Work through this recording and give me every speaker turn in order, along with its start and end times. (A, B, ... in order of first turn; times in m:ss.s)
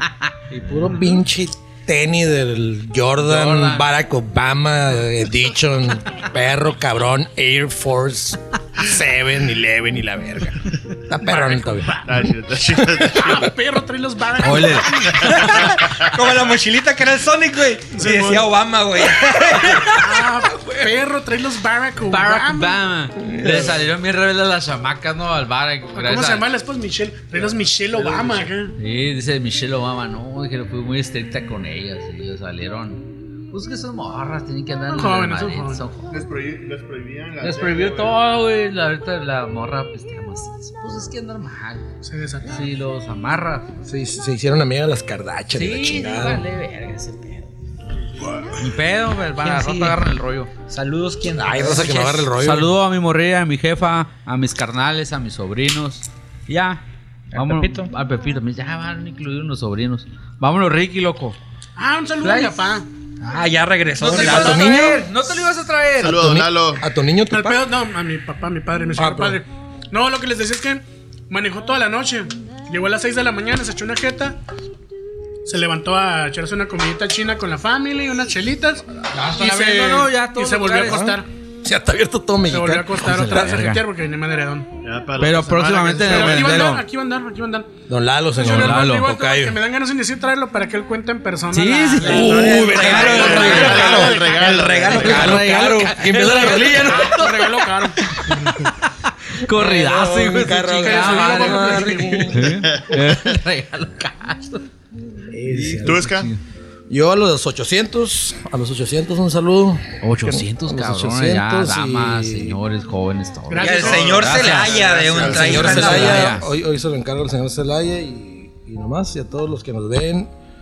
0:00.5-0:12.0 A
0:03.2-0:03.9 B
0:11.2-0:12.1 C
0:12.1-0:13.5 D
0:13.1-0:15.7 C
0:14.4-0:15.3 B
0:15.2-0:20.1 E
0:15.3-0:16.1 D
0:17.9-0:18.5 C
0:20.0-0:22.8 C
0:20.4-0:20.9 B
0:22.1-0:26.5 B
0:23.2-0:23.8 A
0:26.0-0:28.8 C
0:28.3-0:36.2 B
0:34.9-0:35.8 C
0:36.1-0:38.2 D
0:37.4-0:41.8 B
0:42.0-0:42.6 C
0:42.5-0:43.7 B
0:43.8-0:46.4 A
0:45.5-0:47.5 B
0:48.6-0:50.5 B
0:49.4-0:50.0 A
0:50.7-0:52.3 E
0:51.4-0:52.7 A
0:52.3-0:56.8 B
0:57.3-0:57.9 E
0:57.4-1:01.4 B
1:01.8-1:02.9 C
1:02.2-1:02.6 B
1:03.2-1:04.7 E
1:04.0-1:06.2 B
1:04.0-1:05.1 A
1:06.0-1:06.8 D
1:06.0-1:07.7 A
1:07.3-1:14.4 C
1:09.0-1:09.4 A
1:15.5-1:21.3 C
1:19.1-1:21.2 B
1:20.9-1:23.7 A
1:22.5-1:24.7 C
1:23.2-1:23.8 B
1:24.8-1:26.5 D
1:25.2-1:26.8 B
1:26.0-1:27.7 C
1:26.2-1:26.7 A
1:27.9-1:29.6 A
1:28.4-1:34.4 C
1:28.4-1:29.1 B
1:31.5-1:34.1 B
1:32.0-1:33.9 A
1:32.1-1:35.9 E
1:32.9-1:35.2 D
1:34.8-1:37.4 A
1:34.9-1:37.6 B
1:36.8-1:38.6 C
1:38.1-1:44.6 B
1:39.5-1:42.5 A
1:40.7-1:42.5 C
1:42.7-1:43.4 D
1:45.3-1:46.0 A
1:45.5-1:46.4 B
1:45.7-1:46.3 D
1:46.9-1:52.6 A
1:50.0-1:56.5 B
1:53.5-1:54.5 C
1:53.6-1:56.4 E
1:53.8-1:55.8 D
1:55.1-2:00.3 A